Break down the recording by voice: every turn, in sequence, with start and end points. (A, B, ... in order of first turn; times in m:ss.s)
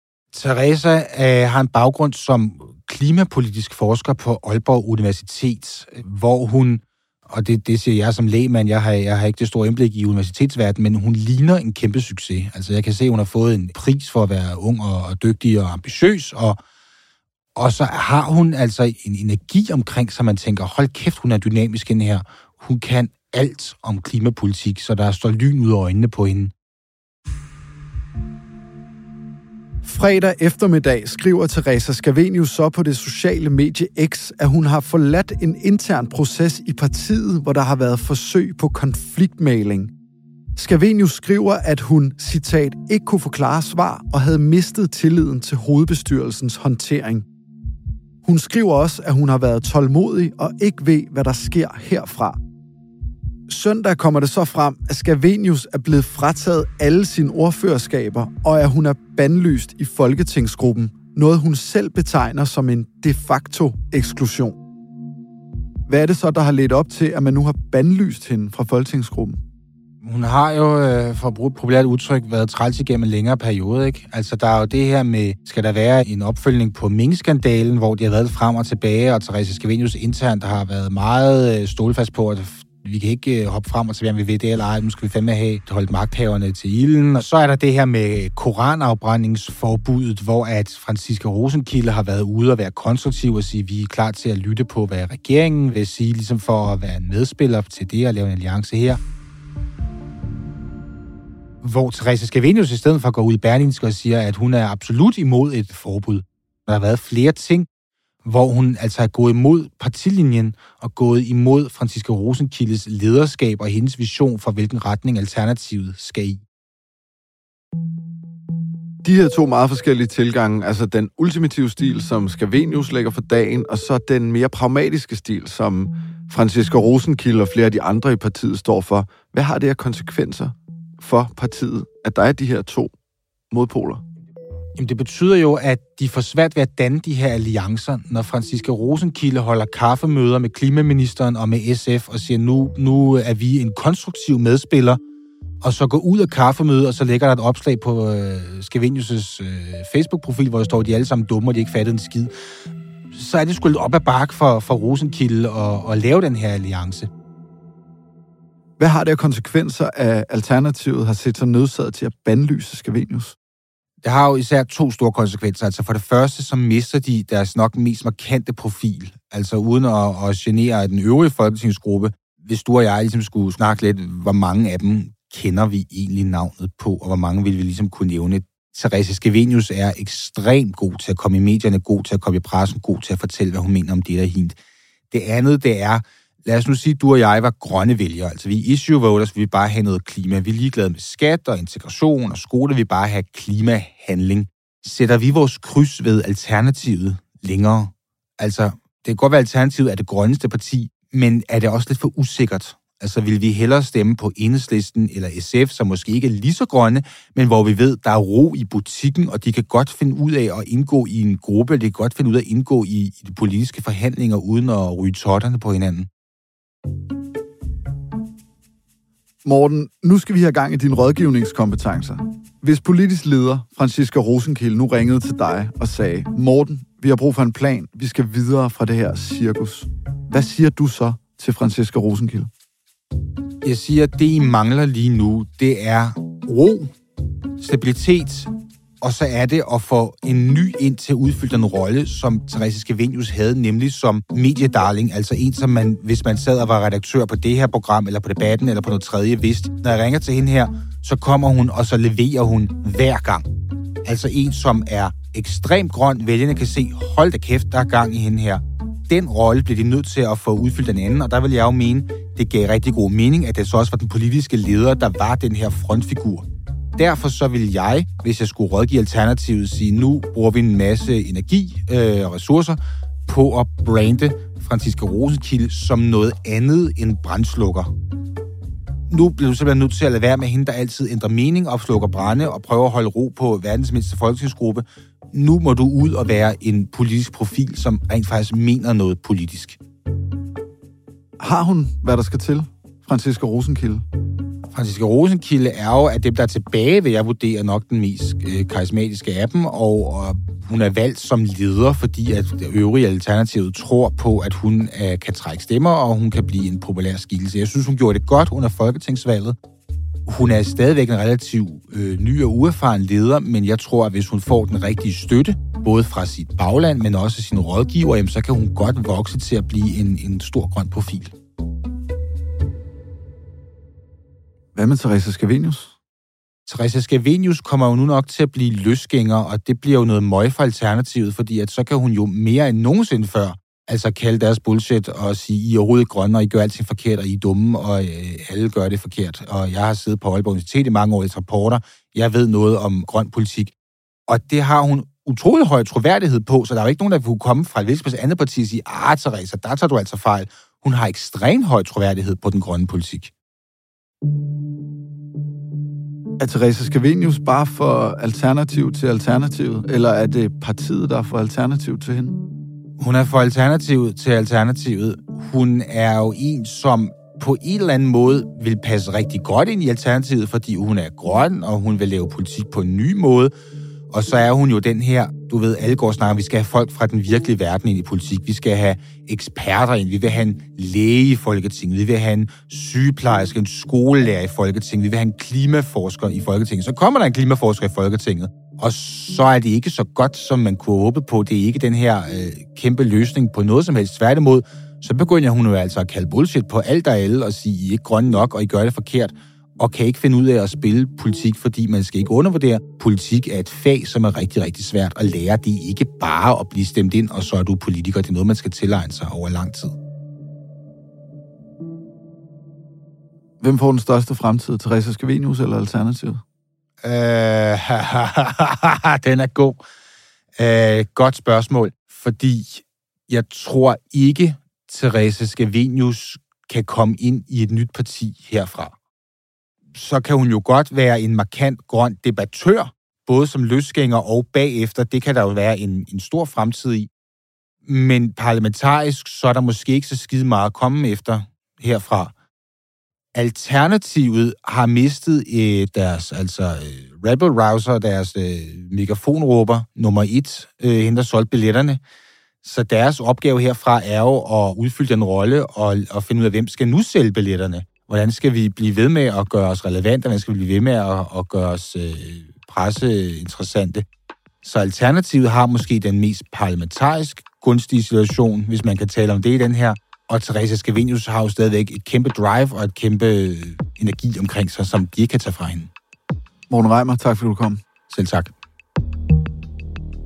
0:00.3-0:16.6 A
0:17.6-0:26.5 A
0:29.8-0:39.9 B
0:40.6-0:47.2 B
0:48.2-0:52.4 B
0:53.5-1:04.6 B
1:05.9-1:09.4 B
1:10.0-1:39.0 A
1:41.6-1:47.7 A
1:48.2-1:56.4 A
1:59.0-2:12.9 B
2:13.5-2:14.0 B
2:14.8-2:25.0 A
2:25.6-2:32.3 A
2:33.1-2:37.1 A
2:38.8-2:43.4 B
2:44.0-3:04.6 A
3:05.1-3:36.1 A
3:39.4-3:52.5 B
3:53.6-3:56.9 A
3:57.6-4:13.5 A
4:14.0-4:26.5 A
4:27.0-4:37.9 A
4:39.1-4:49.8 A
4:51.4-4:54.0 B
4:54.7-5:09.6 A
5:10.3-5:21.3 A
5:24.8-5:26.0 B
5:26.7-5:43.7 A
5:44.3-5:53.3 A
5:56.4-6:02.4 B
6:03.0-6:13.5 A
6:14.1-6:50.0 A
6:53.6-6:56.4 B
6:57.0-6:59.8 A
7:00.6-7:09.0 A
7:09.9-7:17.1 A
7:17.9-7:22.3 A
7:23.3-7:32.0 A
7:32.6-7:44.1 A
7:44.6-7:55.9 A
7:56.7-7:57.8 B
7:58.1-7:58.5 A